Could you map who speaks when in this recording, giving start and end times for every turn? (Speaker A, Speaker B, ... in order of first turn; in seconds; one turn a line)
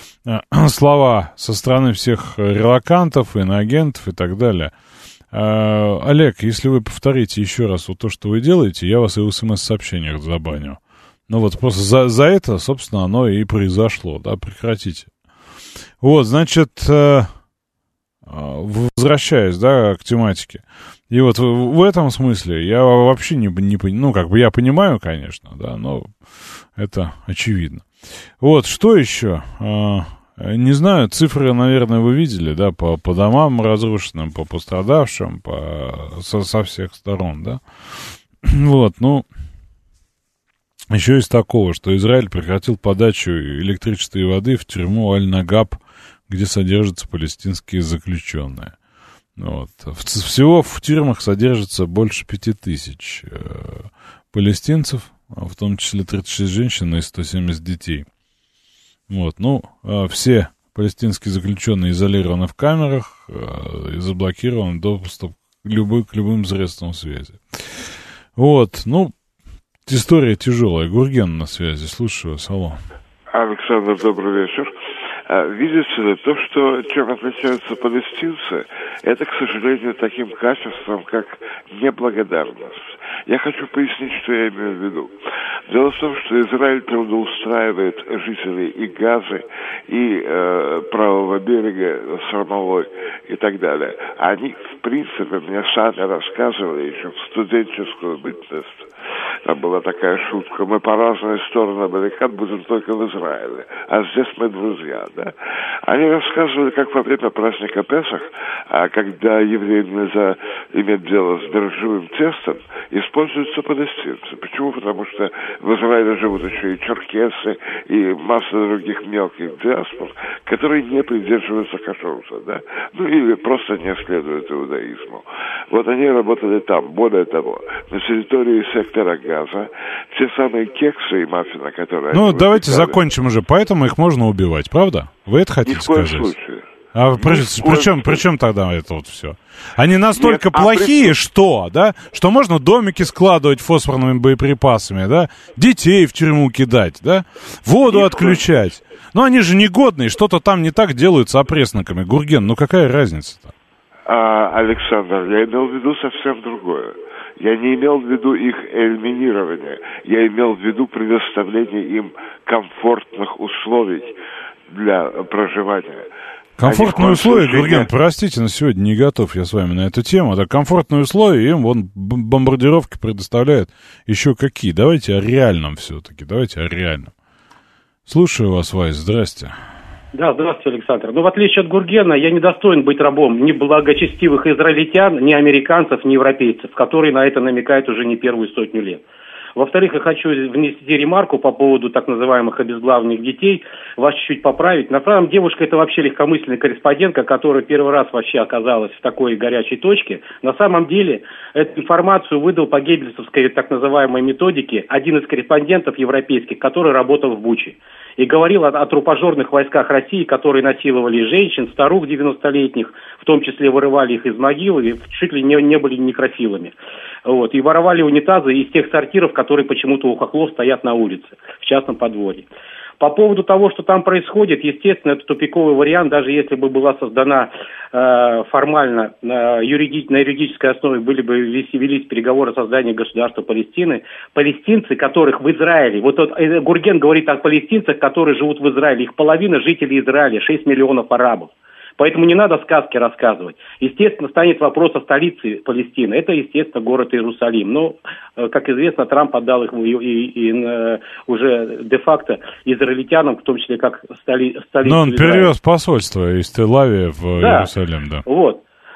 Speaker A: 0.2-4.7
Speaker A: 5.3-15.1
Speaker A: 16.0-17.3
Speaker A: 18.2-26.1
Speaker A: 26.8-27.9
Speaker A: 28.4-39.3
Speaker A: 40.9-48.7
Speaker A: 49.4-58.1
Speaker A: 59.1-69.1
Speaker A: 69.9-72.8
Speaker B: 73.3-74.7
Speaker B: 75.3-85.1
Speaker B: 85.7-98.9
Speaker B: 99.5-105.3
Speaker B: 105.9-133.0
Speaker A: 132.1-136.3
Speaker B: 135.6-136.6
Speaker A: 136.9-153.5
Speaker B: 137.2-138.2
Speaker B: 140.1-141.2
Speaker B: 147.9-148.4
Speaker B: 154.1-164.2
Speaker B: 164.7-167.9
Speaker A: 166.6-177.1
Speaker A: 178.1-179.5
Speaker C: 180.1-189.0
Speaker C: 189.6-222.5
Speaker C: 223.0-255.5
Speaker A: 254.8-258.2
Speaker C: 257.4-257.7
Speaker C: 258.2-258.6